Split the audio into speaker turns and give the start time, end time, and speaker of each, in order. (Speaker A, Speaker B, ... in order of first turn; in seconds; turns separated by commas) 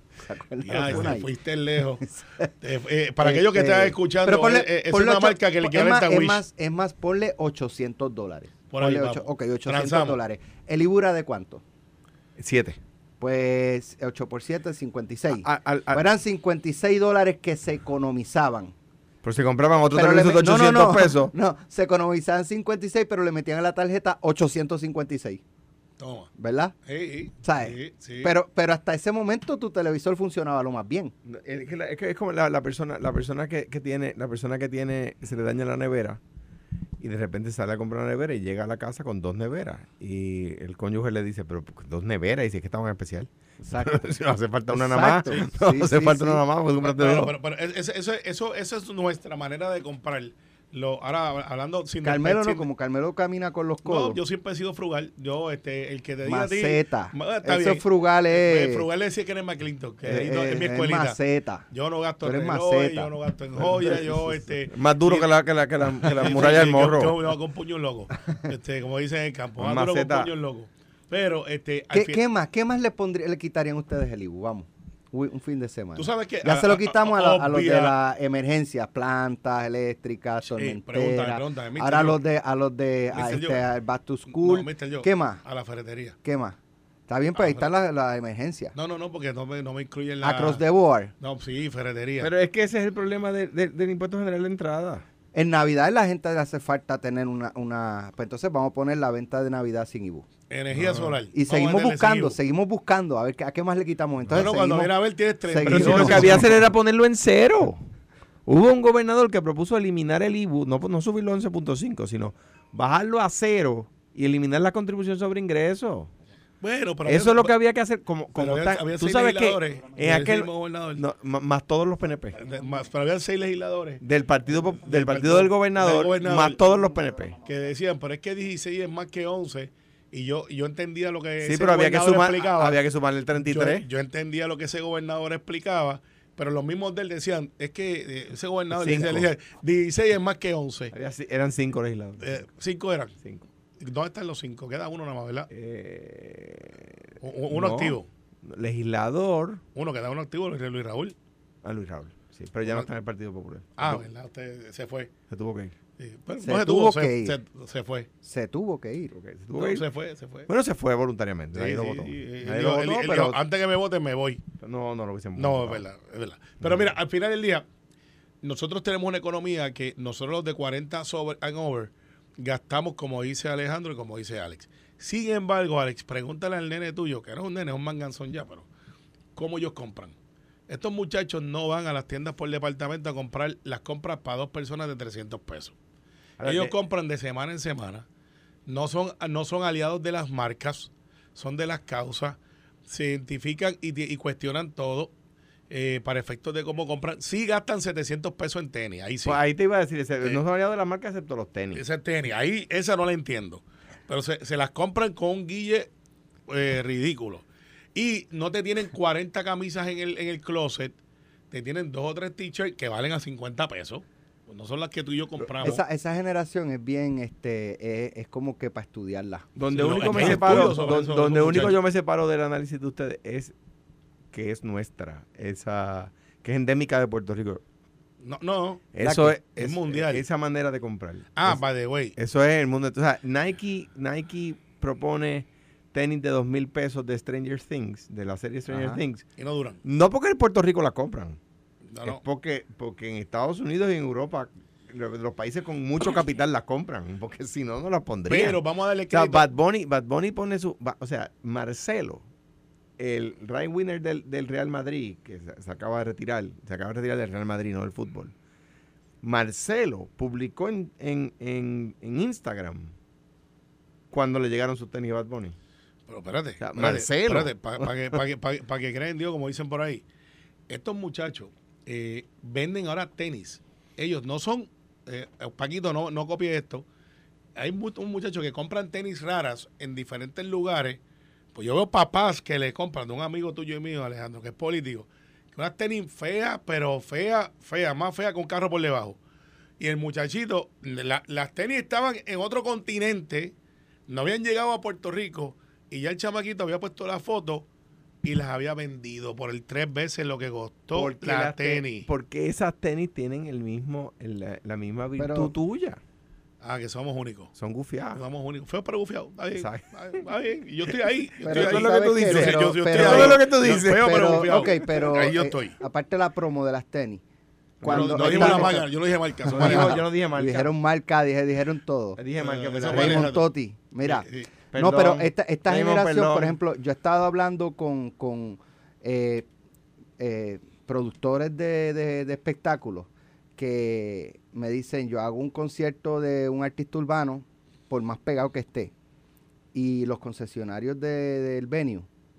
Speaker A: 0.2-1.3, Speaker B: 0.6-2.0, Speaker A: 2.2-2.5, Speaker B: 2.6-6.4, Speaker A: 3.2-11.6, Speaker B: 8.7-10.2, Speaker C: 12.4-12.8, Speaker A: 13.2-18.7, Speaker C: 15.4-16.0, Speaker C: 19.2-21.3, Speaker A: 19.9-25.4, Speaker B: 26.0-26.3, Speaker A: 26.4-26.7, Speaker B: 26.9-28.3, Speaker A: 27.4-31.1, Speaker C: 31.2-36.2, Speaker C: 37.0-47.3, Speaker A: 43.6-44.1, Speaker A: 44.7-46.4, Speaker B: 46.8-52.6, Speaker A: 52.0-54.2, Speaker B: 53.8-61.2, Speaker A: 56.2-58.9, Speaker A: 60.0-61.6, Speaker B: 61.7-65.3, Speaker A: 62.2-64.4, Speaker C: 64.7-67.2, Speaker B: 65.9-72.2, Speaker C: 69.6-70.3, Speaker A: 71.9-85.4, Speaker B: 76.0-77.9, Speaker B: 80.4-82.2, Speaker B: 83.1-83.6, Speaker B: 84.3-86.2, Speaker A: 86.2-86.6, Speaker A: 87.1-88.7, Speaker B: 87.3-87.7, Speaker B: 88.7-90.6, Speaker A: 90.2-91.1, Speaker B: 91.2-92.3, Speaker C: 92.2-95.0, Speaker A: 95.3-100.3, Speaker B: 100.5-102.4, Speaker A: 101.3-104.9, Speaker B: 104.3-106.5, Speaker A: 105.5-106.5, Speaker C: 105.6-107.8, Speaker C: 108.5-116.1, Speaker B: 116.6-117.5, Speaker C: 117.0-122.4, Speaker B: 118.3-121.0, Speaker B: 122.4-124.0, Speaker C: 124.0-127.4, Speaker B: 124.8-126.6, Speaker B: 127.4-132.8, Speaker C: 131.4-133.8, Speaker B: 133.4-140.9, Speaker C: 138.7-139.3, Speaker C: 140.9-142.3, Speaker B: 142.2-143.1, Speaker C: 143.2-143.5, Speaker B: 143.8-145.5, Speaker C: 145.5-149.6, Speaker B: 147.2-148.1, Speaker B: 149.7-151.1, Speaker C: 151.6-154.1, Speaker B: 153.8-155.1, Speaker C: 155.3-155.7, Speaker B: 156.0-158.1, Speaker A: 156.4-157.3, Speaker A: 158.2-159.1, Speaker C: 159.1-159.8, Speaker B: 159.6-160.5, Speaker C: 160.5-163.4, Speaker B: 161.5-164.4, Speaker C: 164.6-165.8, Speaker B: 165.3-167.6, Speaker B: 168.4-178.7, Speaker B: 179.3-180.1, Speaker B: 180.7-185.7, Speaker C: 186.4-186.7, Speaker B: 186.4-188.1, Speaker B: 188.7-195.1, Speaker B: 195.7-199.4, Speaker C: 199.2-201.8, Speaker B: 201.7-205.9, Speaker B: 206.5-210.9, Speaker B: 211.5-215.8, Speaker A: 215.6-220.9, Speaker C: 219.6-223.5, Speaker B: 219.7-221.8, Speaker C: 224.3-227.6, Speaker B: 228.2-229.0, Speaker C: 228.9-231.6, Speaker A: 229.0-229.3, Speaker B: 229.5-230.2, Speaker B: 231.3-232.1, Speaker C: 232.2-239.2, Speaker A: 238.7-239.0, Speaker B: 239.4-239.8, Speaker C: 239.8-241.4, Speaker B: 241.9-242.2, Speaker C: 242.0-252.2, Speaker B: 248.3-249.5, Speaker C: 253.0-258.3, Speaker C: 259.2-262.9, Speaker C: 264.1-265.6, Speaker B: 266.1-270.0, Speaker C: 266.6-268.1, Speaker B: 270.7-276.8, Speaker B: 277.6-281.0, Speaker B: 281.5-289.2, Speaker B: 289.8-293.5, Speaker B: 294.1-297.7, Speaker B: 298.2-302.1, Speaker C: 300.9-306.0, Speaker A: 305.2-305.5, Speaker B: 306.6-307.5, Speaker C: 307.6-308.2, Speaker B: 308.1-315.8, Speaker C: 309.6-309.9, Speaker A: 311.4-317.2, Speaker C: 311.4-314.6, Speaker C: 317.8-318.8, Speaker A: 317.8-318.9, Speaker B: 317.8-320.0, Speaker C: 319.5-320.7, Speaker A: 319.5-322.2, Speaker C: 322.2-323.3, Speaker B: 322.4-323.4, Speaker A: 322.8-329.5, Speaker B: 324.0-324.5, Speaker C: 324.7-326.6, Speaker A: 330.2-338.9, Speaker A: 339.7-342.1